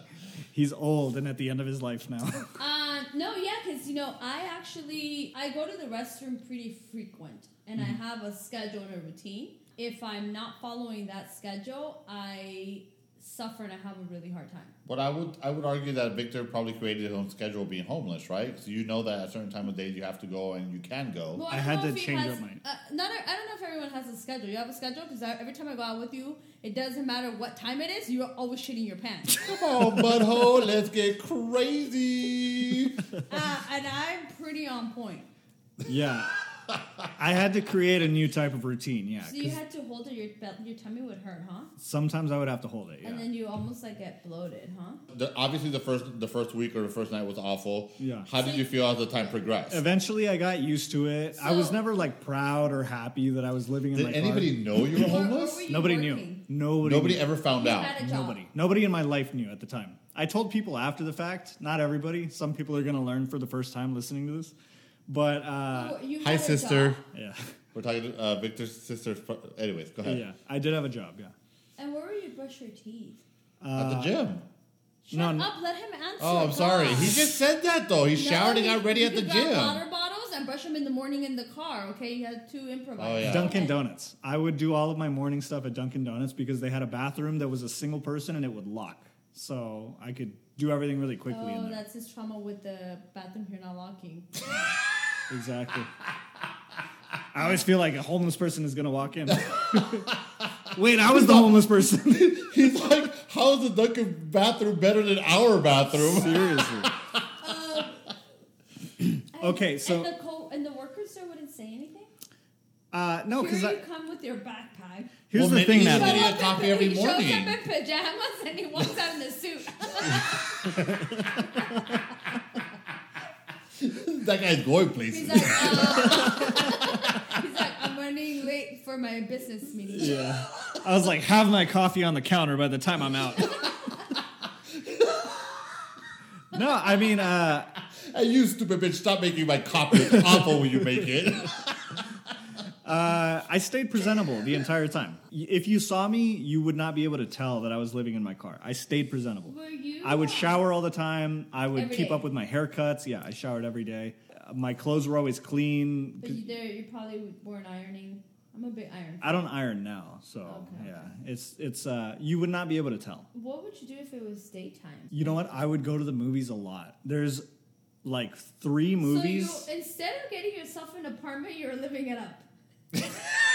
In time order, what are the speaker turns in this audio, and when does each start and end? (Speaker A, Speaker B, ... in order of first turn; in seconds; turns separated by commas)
Speaker A: 0.5-2.6, Speaker B: 2.6-14.7, Speaker C: 14.9-21.4, Speaker B: 21.4-29.5, Speaker A: 21.5-22.6, Speaker A: 29.4-30.2, Speaker C: 29.4-33.0, Speaker B: 33.3-35.3, Speaker A: 35.9-36.3, Speaker A: 37.2-39.6, Speaker B: 39.2-41.7, Speaker A: 41.8-43.3, Speaker B: 43.0-45.0, Speaker C: 45.1-49.8, Speaker A: 48.0-48.3, Speaker B: 48.4-48.7, Speaker A: 49.7-55.1, Speaker B: 51.4-51.8, Speaker C: 53.9-55.7, Speaker B: 54.9-56.4, Speaker A: 55.7-57.3, Speaker C: 56.8-58.0, Speaker B: 57.5-58.4, Speaker A: 58.0-64.5, Speaker A: 65.1-66.0, Speaker B: 65.7-67.0, Speaker C: 66.2-67.0, Speaker A: 67.1-67.5, Speaker C: 67.7-70.2, Speaker A: 70.0-71.3, Speaker B: 71.8-73.2, Speaker A: 73.6-74.1, Speaker C: 73.8-74.4, Speaker B: 75.1-77.3, Speaker A: 75.1-75.5, Speaker C: 76.2-79.8, Speaker B: 78.1-83.8, Speaker C: 83.0-83.7, Speaker A: 83.2-91.8, Speaker B: 91.3-94.4, Speaker A: 95.3-95.9, Speaker A: 97.3-100.1, Speaker C: 99.3-100.2, Speaker A: 100.7-102.5, Speaker C: 101.0-107.5, Speaker A: 105.9-106.9, Speaker B: 107.4-108.0, Speaker A: 109.0-110.1, Speaker B: 109.3-112.1, Speaker A: 112.9-113.8, Speaker B: 113.4-121.9, Speaker A: 115.3-116.3, Speaker C: 115.3-117.6, Speaker A: 120.8-122.0, Speaker C: 123.8-127.2, Speaker B: 125.1-130.8, Speaker A: 126.1-126.7, Speaker A: 129.9-133.7, Speaker C: 134.8-135.4, Speaker A: 136.5-137.7, Speaker C: 137.9-142.1, Speaker A: 142.8-156.4, Speaker B: 149.5-150.7, Speaker B: 151.7-152.3, Speaker B: 156.2-159.4, Speaker A: 159.2-163.3, Speaker B: 160.5-160.9, Speaker B: 163.3-165.4, Speaker A: 165.1-167.5, Speaker A: 168.0-169.7, Speaker B: 169.0-172.5, Speaker C: 173.0-173.2